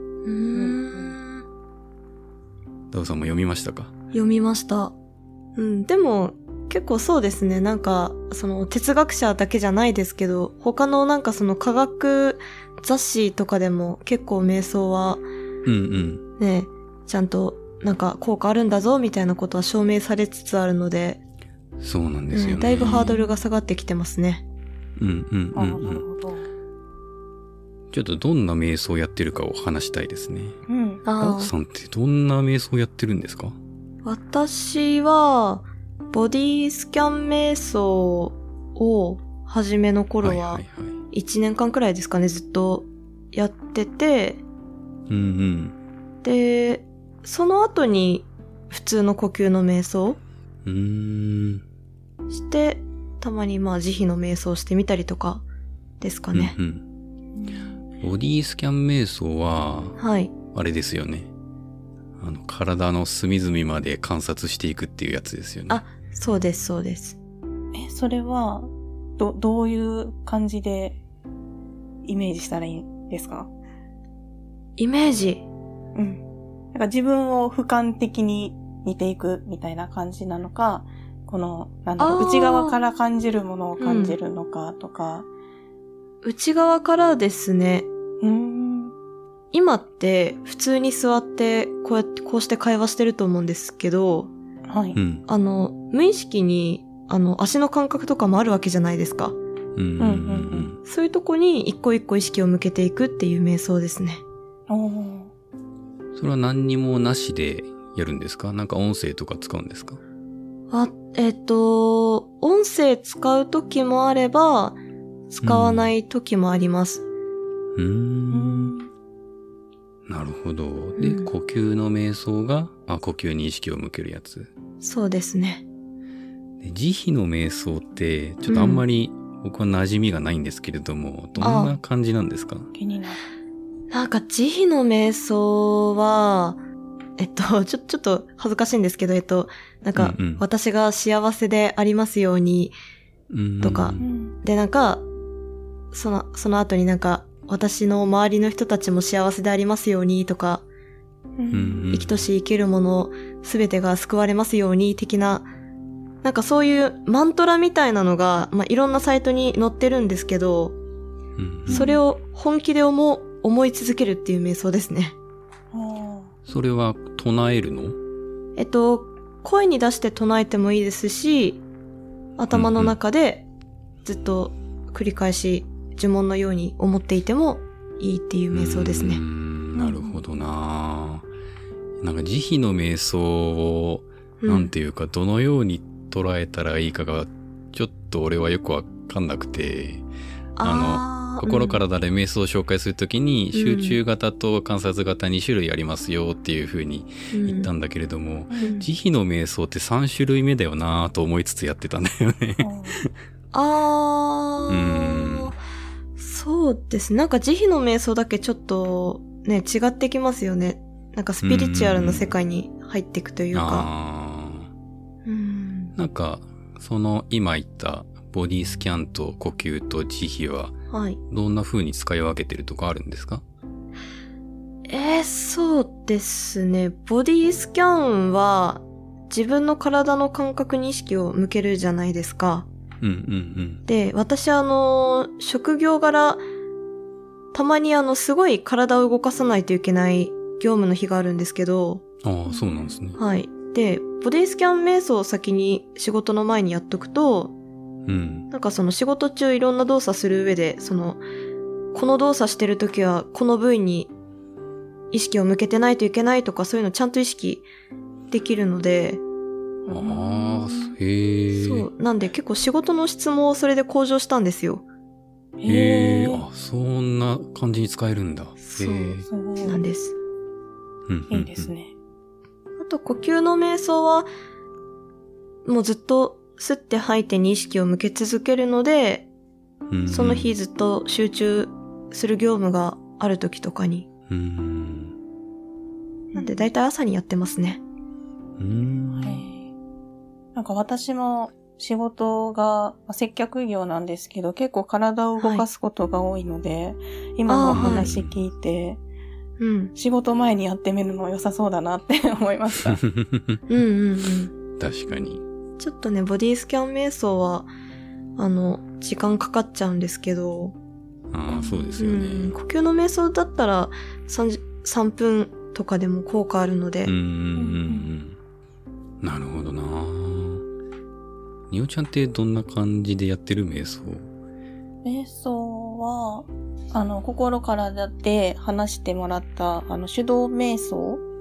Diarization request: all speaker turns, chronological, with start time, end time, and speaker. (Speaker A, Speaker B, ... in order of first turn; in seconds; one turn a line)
Speaker A: 0.2-1.4
Speaker B: 0.5-1.2
Speaker C: 2.9-3.9
Speaker A: 4.1-5.0
Speaker A: 5.6-15.2
Speaker C: 15.7-16.2
Speaker A: 16.4-21.2
Speaker C: 21.8-23.2
Speaker A: 22.3-24.4
Speaker B: 22.8-23.3
Speaker C: 25.0-26.0
Speaker B: 25.6-26.5
Speaker C: 27.9-30.6
Speaker B: 30.7-31.0
Speaker A: 31.1-31.5
Speaker C: 31.2-33.6
Speaker A: 34.0-44.4
Speaker C: 40.2-41.0
Speaker C: 45.1-45.8
Speaker A: 46.2-50.2
Speaker C: 50.6-51.6
Speaker A: 52.3-55.4
Speaker A: 56.0-56.6
Speaker C: 56.3-56.9
Speaker B: 57.4-57.7
Speaker C: 58.0-60.0
Speaker A: 60.0-60.3
Speaker C: 60.5-61.3
Speaker C: 62.2-65.8
Speaker A: 65.7-67.2
Speaker B: 67.7-71.0
Speaker B: 72.0-73.5
Speaker A: 74.8-75.5
Speaker B: 76.0-76.2
Speaker B: 76.7-85.3
Speaker A: 82.0-82.8
Speaker A: 83.8-84.2
Speaker A: 86.2-87.9
Speaker B: 88.2-88.9
Speaker A: 89.5-94.3
Speaker B: 94.7-95.0
Speaker C: 95.0-95.2
Speaker A: 95.3-99.4
Speaker C: 99.8-100.8
Speaker B: 100.0-100.7
Speaker A: 100.8-104.2
Speaker B: 104.7-105.3
Speaker C: 106.2-110.0
Speaker A: 110.7-114.8
Speaker A: 115.3-117.0
Speaker C: 115.4-115.9
Speaker C: 117.8-118.7
Speaker B: 118.3-118.9
Speaker C: 120.1-124.5
Speaker A: 121.0-121.3
Speaker A: 124.8-125.6
Speaker C: 126.6-132.7
Speaker A: 128.5-128.9
Speaker A: 131.4-131.8
Speaker B: 132.7-133.2
Speaker A: 133.9-136.6
Speaker A: 137.2-142.8
Speaker C: 140.0-140.4
Speaker C: 143.3-144.0
Speaker A: 143.6-145.0
Speaker B: 144.0-144.4
Speaker A: 145.9-150.6
Speaker B: 151.4-151.8
Speaker C: 151.5-152.3
Speaker A: 151.9-155.5
Speaker A: 156.2-160.8
Speaker C: 161.4-161.9
Speaker B: 161.7-162.0
Speaker A: 161.7-165.2
Speaker B: 165.7-166.3
Speaker C: 166.5-168.0
Speaker A: 168.6-171.6
Speaker A: 172.4-173.5
Speaker C: 172.5-173.0
Speaker A: 174.0-179.2
Speaker C: 178.5-181.3
Speaker A: 179.8-180.2
Speaker C: 182.0-190.1
Speaker A: 184.4-184.7
Speaker A: 190.6-191.8
Speaker C: 190.6-203.1
Speaker A: 193.5-194.0
Speaker A: 197.3-197.7
Speaker B: 198.5-198.8
Speaker A: 198.6-198.9
Speaker B: 202.6-203.0
Speaker A: 203.5-205.6
Speaker C: 204.7-205.5
Speaker A: 206.2-213.9
Speaker C: 211.4-212.3
Speaker C: 213.5-214.7
Speaker A: 215.2-215.9
Speaker C: 216.0-220.7
Speaker A: 220.9-221.2
Speaker C: 221.3-223.4
Speaker A: 224.9-232.7
Speaker C: 233.0-233.8
Speaker A: 233.9-236.4
Speaker A: 237.5-242.0
Speaker C: 242.2-243.2
Speaker B: 242.5-242.9
Speaker A: 243.2-247.5
Speaker C: 248.1-248.5
Speaker A: 248.5-251.2
Speaker A: 251.9-254.1
Speaker A: 255.1-257.7
Speaker A: 258.3-259.2
Speaker B: 259.9-261.0
Speaker C: 259.9-261.9
Speaker A: 261.5-264.9
Speaker B: 265.6-266.4
Speaker C: 265.7-269.3
Speaker A: 268.6-270.2
Speaker B: 269.3-269.8
Speaker C: 271.1-271.7
Speaker B: 271.3-271.9
Speaker A: 272.8-274.3
Speaker A: 275.6-279.3
Speaker C: 279.9-280.5
Speaker A: 280.1-284.1
Speaker C: 284.3-285.2
Speaker B: 286.3-286.7
Speaker A: 286.4-287.8
Speaker C: 288.6-289.4
Speaker B: 289.2-289.7
Speaker B: 290.6-299.0
Speaker A: 295.4-295.7
Speaker A: 297.5-298.1
Speaker C: 297.7-298.4
Speaker A: 299.6-299.9
Speaker B: 300.0-303.0
Speaker C: 303.0-303.6
Speaker A: 303.7-304.5
Speaker C: 304.8-305.4
Speaker A: 305.8-307.7
Speaker A: 308.4-310.8
Speaker C: 311.3-312.5
Speaker A: 311.5-317.1
Speaker C: 317.1-318.4
Speaker B: 317.6-318.1
Speaker C: 319.2-320.6
Speaker C: 321.7-324.3
Speaker B: 325.1-331.2